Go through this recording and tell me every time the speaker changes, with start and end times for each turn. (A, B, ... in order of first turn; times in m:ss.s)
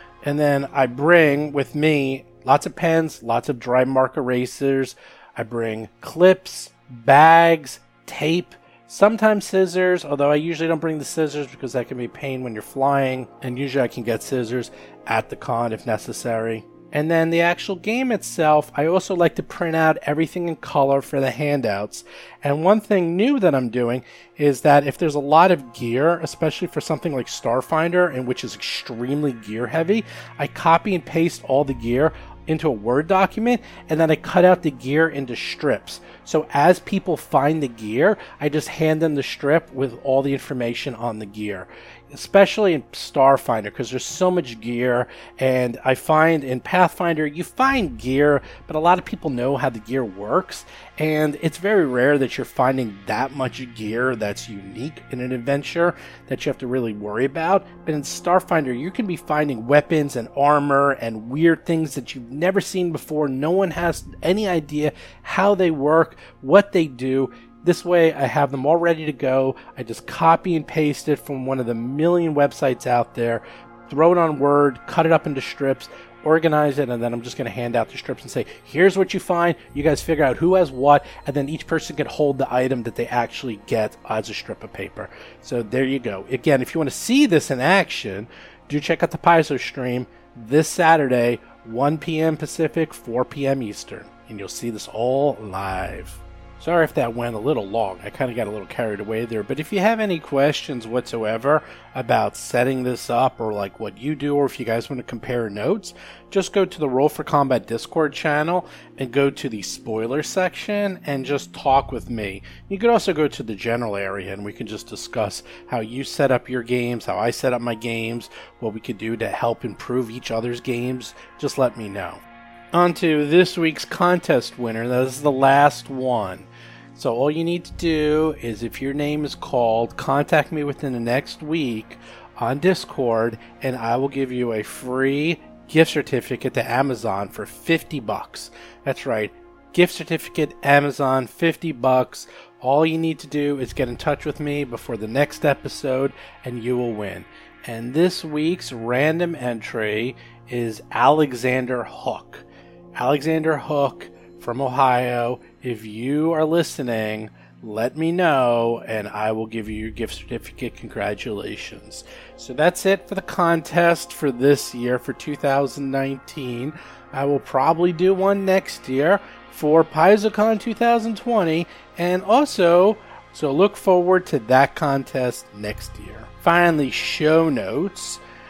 0:00.2-2:02.2 A
2:02.7-2:32.5 A
2:33.0-2:58.2 A